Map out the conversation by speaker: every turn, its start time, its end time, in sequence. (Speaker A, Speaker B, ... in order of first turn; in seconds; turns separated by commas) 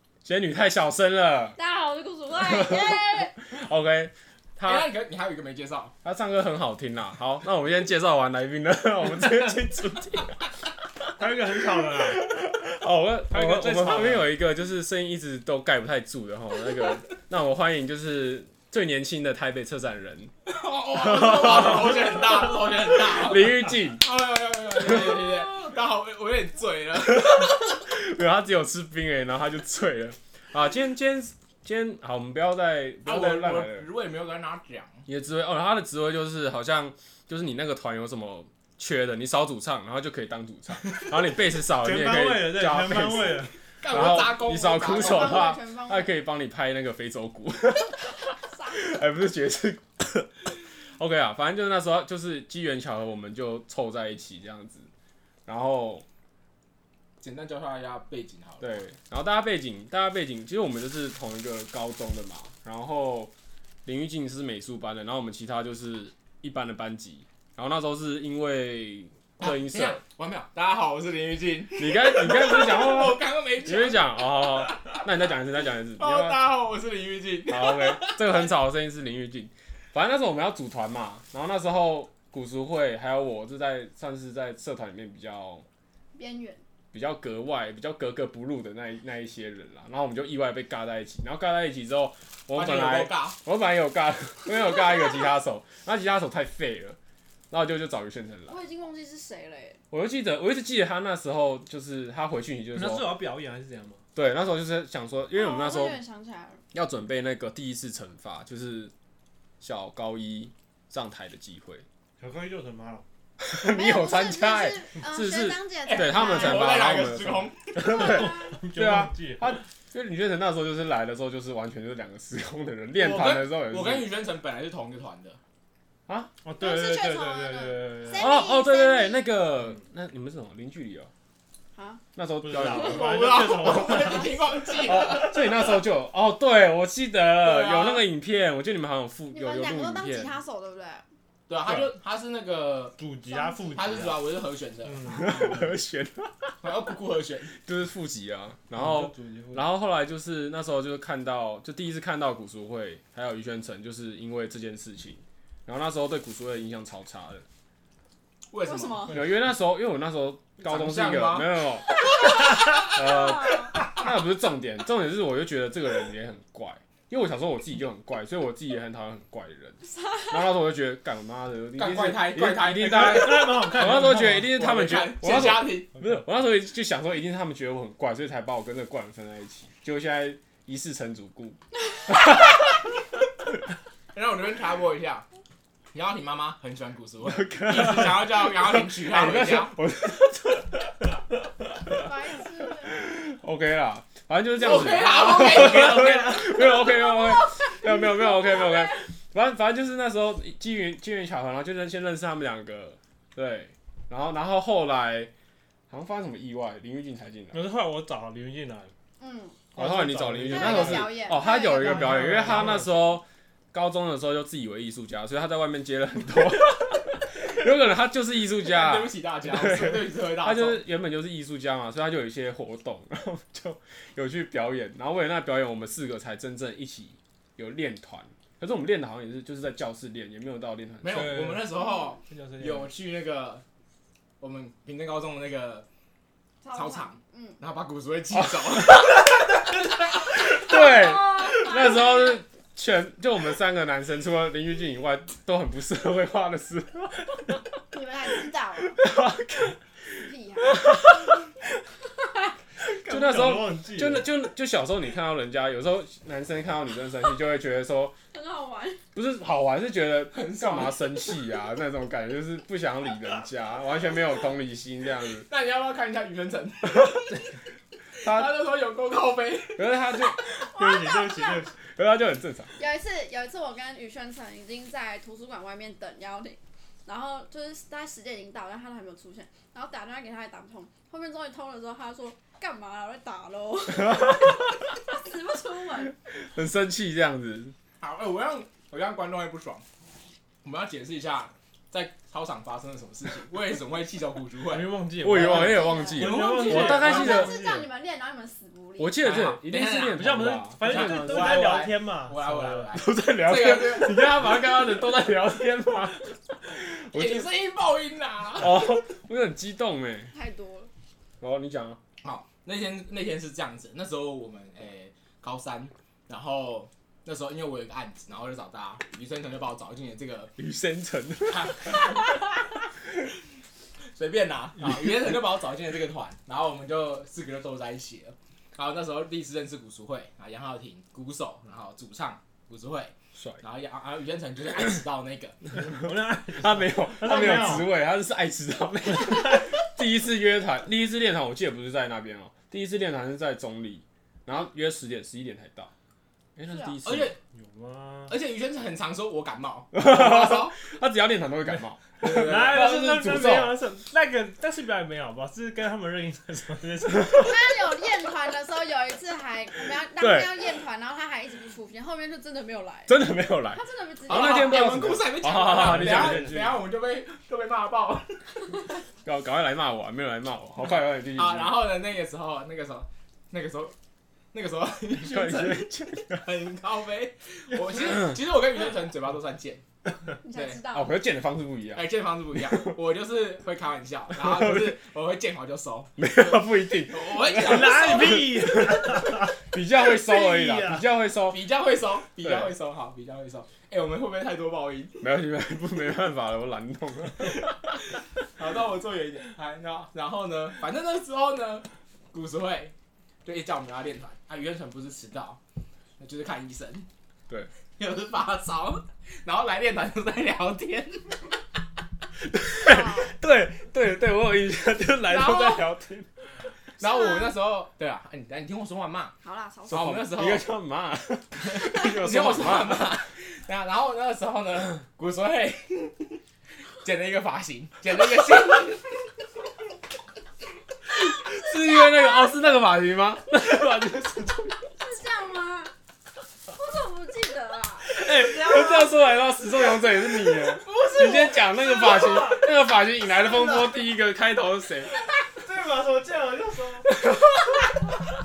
Speaker A: 0.2-1.6, Speaker B: 1.6-3.4, Speaker A: 2.4-4.9, Speaker C: 4.6-6.0, Speaker A: 6.0-10.4, Speaker D: 11.2-12.3, Speaker A: 11.9-20.3, Speaker D: 13.3-14.3, Speaker C: 20.5-27.4, Speaker A: 21.0-22.2, Speaker A: 22.9-24.0, Speaker A: 24.9-25.4, Speaker A: 27.1-33.9, Speaker C: 33.1-35.0, Speaker A: 35.1-50.3, Speaker D: 41.8-43.5, Speaker C: 43.8-45.5, Speaker B: 44.8-46.2, Speaker B: 48.4-49.0, Speaker A: 51.0-54.9, Speaker A: 55.5-56.0, Speaker C: 57.2-58.9, Speaker A: 58.6-63.3, Speaker A: 63.9-70.0, Speaker C: 69.4-75.0, Speaker A: 71.8-76.4, Speaker C: 76.0-78.5, Speaker A: 77.5-85.7, Speaker B: 86.2-86.6, Speaker A: 86.9-97.0, Speaker C: 92.5-93.4, Speaker A: 97.5-98.6, Speaker B: 98.5-99.8, Speaker A: 99.9-103.2, Speaker D: 102.7-104.0, Speaker A: 104.2-106.0, Speaker B: 105.3-106.6, Speaker A: 106.7-108.9, Speaker A: 109.6-111.8, Speaker D: 112.2-113.0, Speaker A: 113.4-124.1, Speaker B: 113.7-116.8, Speaker C: 115.9-117.7, Speaker D: 117.8-119.6, Speaker B: 117.8-118.6, Speaker C: 122.9-125.4, Speaker D: 126.4-128.3, Speaker B: 126.6-129.3, Speaker A: 128.1-131.1, Speaker B: 131.8-132.0, Speaker A: 132.2-133.2, Speaker D: 132.4-134.4, Speaker C: 132.8-135.4, Speaker B: 133.8-134.2, Speaker A: 134.8-140.3, Speaker C: 137.5-137.9, Speaker B: 139.3-141.0, Speaker C: 141.5-143.0, Speaker D: 143.0-144.2, Speaker B: 143.3-144.1, Speaker C: 143.7-145.3, Speaker D: 144.8-145.7, Speaker A: 145.2-146.6, Speaker C: 146.6-147.6, Speaker A: 147.6-157.4, Speaker D: 148.7-149.7, Speaker C: 158.5-159.2, Speaker B: 158.7-159.2, Speaker D: 159.1-159.3, Speaker A: 159.1-161.9, Speaker C: 160.6-161.6, Speaker A: 162.8-182.8, Speaker B: 162.9-163.8, Speaker B: 169.9-170.4, Speaker C: 171.8-173.6, Speaker D: 172.6-174.6, Speaker C: 174.5-175.9, Speaker D: 176.0-176.2, Speaker C: 184.1-185.2, Speaker C: 185.9-189.8, Speaker A: 187.3-192.1, Speaker B: 191.9-193.0, Speaker A: 192.8-205.3, Speaker C: 194.6-196.6, Speaker B: 196.5-199.0, Speaker A: 205.9-207.6, Speaker D: 207.5-208.9, Speaker B: 209.2-209.7, Speaker D: 209.7-213.0, Speaker A: 209.8-231.4, Speaker B: 210.5-212.2, Speaker C: 218.6-220.8, Speaker C: 231.0-233.6, Speaker D: 231.1-232.9, Speaker C: 234.4-235.9, Speaker B: 236.6-237.6, Speaker C: 236.7-239.9, Speaker A: 238.4-239.3, Speaker A: 240.2-247.6, Speaker B: 240.6-242.4, Speaker B: 247.9-249.0, Speaker A: 249.0-249.8, Speaker B: 250.2-251.0, Speaker A: 250.6-251.2, Speaker D: 252.8-254.3, Speaker A: 253.0-258.2, Speaker B: 258.3-259.0, Speaker A: 259.1-265.5, Speaker C: 260.3-261.0, Speaker C: 265.5-267.3, Speaker A: 268.2-268.5, Speaker C: 268.2-269.9, Speaker A: 269.8-270.4, Speaker B: 270.4-271.6, Speaker D: 270.7-271.8, Speaker A: 271.9-272.7, Speaker B: 272.8-286.1, Speaker A: 284.1-284.6, Speaker A: 286.3-287.8, Speaker C: 288.0-289.9, Speaker C: 290.6-295.6, Speaker D: 294.7-297.9, Speaker A: 295.2-297.6, Speaker B: 295.4-299.3, Speaker C: 296.2-297.1, Speaker A: 299.0-301.7, Speaker C: 299.2-300.2, Speaker D: 299.9-302.9, Speaker C: 300.8-304.4, Speaker A: 302.9-307.5, Speaker C: 307.1-309.0, Speaker A: 308.6-310.3, Speaker B: 310.3-310.9, Speaker A: 311.4-312.0, Speaker C: 312.2-320.5, Speaker A: 320.6-322.0, Speaker C: 321.5-322.2, Speaker C: 324.1-335.7, Speaker A: 333.4-333.6, Speaker D: 335.7-337.9, Speaker A: 336.6-345.9, Speaker B: 337.5-337.9, Speaker D: 339.2-339.6, Speaker A: 346.6-347.3, Speaker B: 346.7-347.0, Speaker C: 347.0-347.4, Speaker D: 347.5-348.3, Speaker C: 348.3-350.8, Speaker A: 349.9-353.8, Speaker D: 352.2-357.5, Speaker B: 357.4-363.2, Speaker A: 360.2-360.6, Speaker A: 363.1-366.8, Speaker B: 363.7-364.9, Speaker C: 364.3-368.7, Speaker D: 365.8-366.7, Speaker A: 369.2-371.7, Speaker C: 371.4-373.9, Speaker C: 374.5-379.9, Speaker A: 375.2-376.4, Speaker B: 380.4-381.1, Speaker C: 380.5-380.8, Speaker A: 380.9-382.1, Speaker C: 381.9-386.2, Speaker A: 384.5-384.8, Speaker A: 386.2-391.6, Speaker C: 387.1-388.2, Speaker D: 387.5-391.1, Speaker C: 391.5-395.2, Speaker A: 392.4-392.7, Speaker A: 395.2-397.8, Speaker C: 398.6-405.6, Speaker C: 406.2-407.1, Speaker C: 408.0-411.5, Speaker A: 412.5-416.3, Speaker B: 412.8-413.3, Speaker C: 415.3-415.9, Speaker C: 417.0-419.4, Speaker B: 417.0-417.5, Speaker B: 419.4-420.3, Speaker A: 419.9-423.1, Speaker C: 419.9-420.6, Speaker C: 421.6-426.4, Speaker C: 427.0-429.1, Speaker A: 431.1-434.8, Speaker B: 435.0-435.9, Speaker B: 436.7-438.2, Speaker A: 438.1-445.1, Speaker D: 438.3-439.1, Speaker B: 440.8-442.6, Speaker C: 441.0-441.4, Speaker D: 442.0-442.6, Speaker D: 445.6-447.1, Speaker A: 447.2-447.7